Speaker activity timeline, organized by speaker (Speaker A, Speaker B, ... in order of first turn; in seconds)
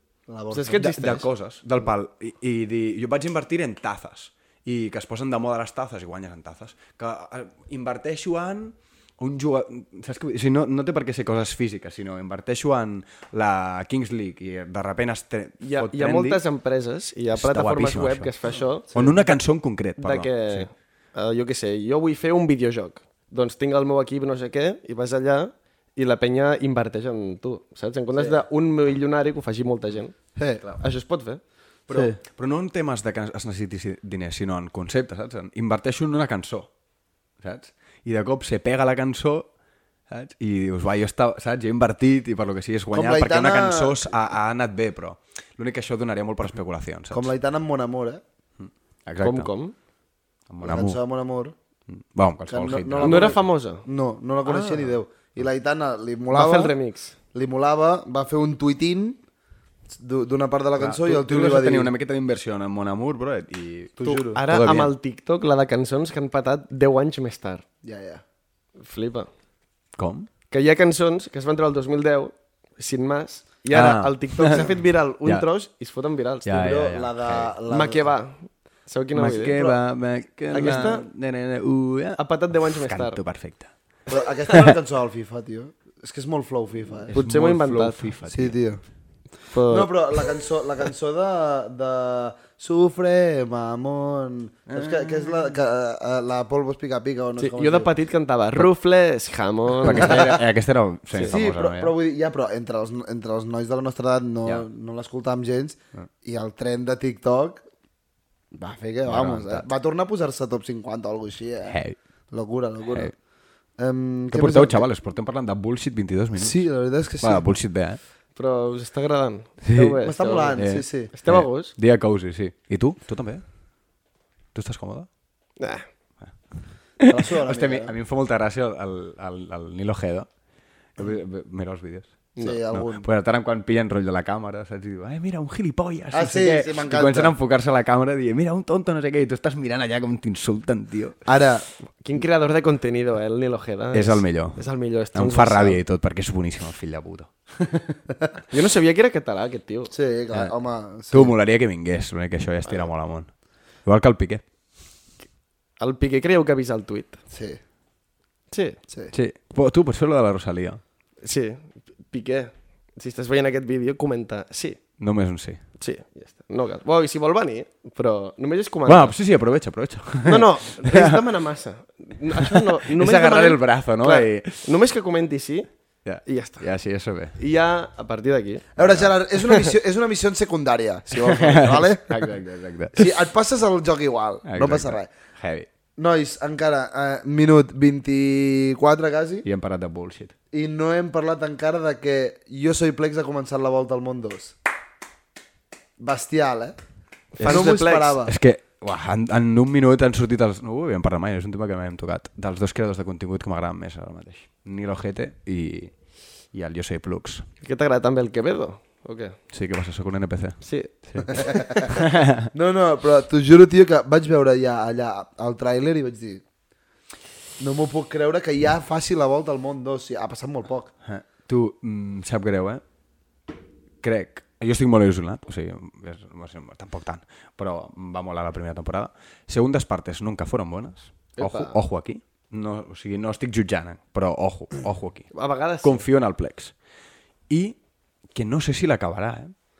Speaker A: 0.3-0.9, 18.9-19.2, 28.1-28.4, 30.4-30.6, 31.9-32.2, 42.9-44.1, 47.1-48.2, 50.6-51.5, 52.5-56.8, 57.3-59.2, 59.9-61.9, 64.0-64.4, 67.8-68.2, 76.5-78.1, 84.1-87.1, 88.3-88.8, 89.7-97.9, 99.9-100.4, 101.3-107.6, 108.5-111.8, 112.3-113.1, 113.8-114.9, 116.4-117.4, 120.0-121.1, 127.0-127.9, 132.4-133.1, 136.1-137.3, 141.3-141.7, 149.9-151.3, 157.3-157.6, 178.8-182.3, 182.9-185.1, 186.0-189.5, 190.5-194.6, 196.0-196.8, 197.4-198.3, 211.3-212.0, 212.5-216.4, 217.6-220.9
Speaker B: 0.5-1.2, 15.6-19.3, 20.0-30.1, 30.8-31.4, 49.2-49.7, 53.0-53.9, 54.5-54.9, 56.3-57.1, 64.0-67.6, 68.8-69.3, 70.5-76.6, 77.7-79.7, 80.5-81.1, 82.2-83.2, 87.1-88.1, 89.5-89.9, 97.4-100.4, 118.4-121.7, 125.6-125.9, 142.0-145.8, 148.5-149.9, 155.8-157.2, 158.5-158.8, 161.2-164.8, 165.8-169.2, 170.2-175.7, 176.3-176.7, 177.4-178.7, 197.4-198.2, 207.6-209.4, 210.6-210.9, 231.4-231.8, 235.3-236.1
Speaker C: 0.8-16.4, 17.4-18.3, 18.9-20.7, 31.9-36.7, 37.4-39.5, 40.1-47.3, 48.6-49.5, 50.5-51.0, 51.9-53.4, 60.8-64.9, 70.0-70.3, 73.7-74.7, 76.5-77.5, 79.1-83.7, 87.1-88.6, 94.7-95.5, 99.8-101.9, 109.1-109.7, 111.7-112.0, 114.3-116.7, 117.2-118.0, 119.7-120.0, 120.6-123.4, 124.5-125.1, 127.0-130.3, 131.0-132.2, 132.7-141.2, 143.9-148.0, 151.1-153.3, 153.8-154.4, 159.1-160.8, 165.0-165.6, 168.9-171.3, 172.4-174.7, 176.1-177.4, 178.8-179.1, 181.2-183.1, 184.5-185.7, 189.4-190.3, 197.4-205.9, 206.5-207.5, 209.5-212.5, 221.1-222.8, 224.0-235.3, 235.8-236.7, 237.5-237.8, 238.3-239.5